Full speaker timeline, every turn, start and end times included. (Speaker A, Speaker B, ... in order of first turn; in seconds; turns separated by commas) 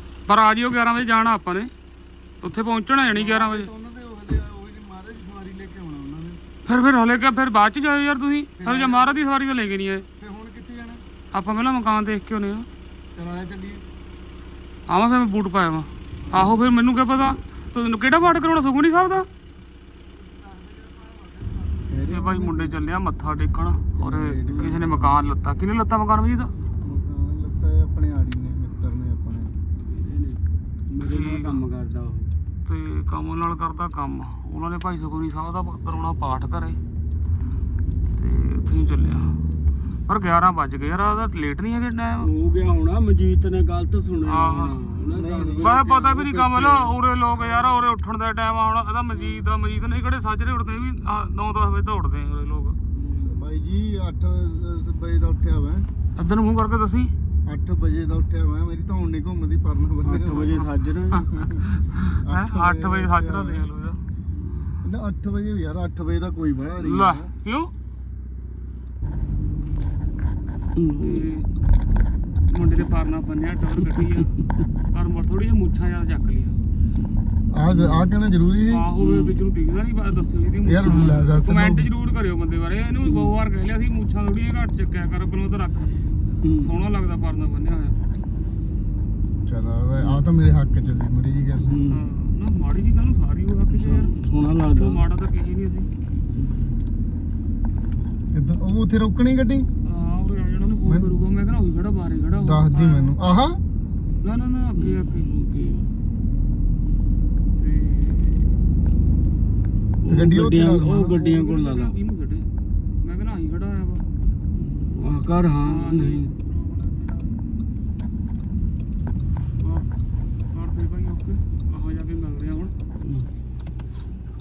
Speaker A: 0.3-1.7, Speaker A: 2.4-3.7, Speaker B: 3.1-6.4, Speaker A: 6.7-10.0, Speaker B: 8.6-9.2, Speaker B: 10.2-11.0, Speaker A: 11.3-12.7, Speaker B: 13.1-13.8, Speaker A: 14.9-19.3, Speaker B: 16.3-16.6, Speaker C: 20.2-22.0, Speaker B: 21.9-22.7, Speaker A: 22.0-26.5, Speaker B: 24.0-25.2, Speaker B: 26.8-29.6, Speaker C: 29.9-32.3, Speaker A: 31.0-31.6, Speaker A: 32.6-36.8, Speaker A: 38.1-39.4, Speaker A: 40.1-42.3, Speaker C: 42.2-47.9, Speaker A: 44.2-44.8, Speaker B: 45.1-45.7, Speaker A: 45.6-52.8, Speaker C: 49.1-49.4, Speaker C: 52.9-53.5, Speaker B: 53.1-55.9, Speaker A: 56.1-57.1, Speaker B: 57.4-60.6, Speaker C: 60.0-61.3, Speaker A: 61.2-64.0, Speaker B: 61.3-61.6, Speaker B: 62.2-63.6, Speaker B: 64.8-67.3, Speaker A: 66.8-67.7, Speaker C: 70.7-71.2, Speaker A: 71.0-71.5, Speaker A: 72.5-76.6, Speaker B: 77.5-78.9, Speaker C: 77.7-78.1, Speaker A: 78.7-85.9, Speaker C: 79.0-79.4, Speaker B: 80.6-81.9, Speaker C: 86.4-86.7, Speaker A: 86.6-88.0, Speaker B: 89.5-91.8, Speaker C: 90.0-90.2, Speaker C: 91.7-92.0, Speaker A: 91.9-94.1, Speaker C: 93.7-95.0, Speaker A: 94.7-95.9, Speaker C: 96.3-96.7, Speaker B: 98.3-99.7, Speaker A: 99.8-103.2, Speaker B: 100.8-101.1, Speaker B: 102.3-103.6, Speaker A: 104.2-105.9, Speaker C: 104.8-105.2, Speaker A: 107.6-108.5, Speaker C: 110.0-112.0, Speaker B: 110.1-111.2, Speaker A: 111.1-112.5, Speaker A: 113.0-114.0, Speaker C: 114.5-116.3, Speaker A: 115.6-117.4, Speaker A: 119.6-119.9, Speaker A: 120.5-122.7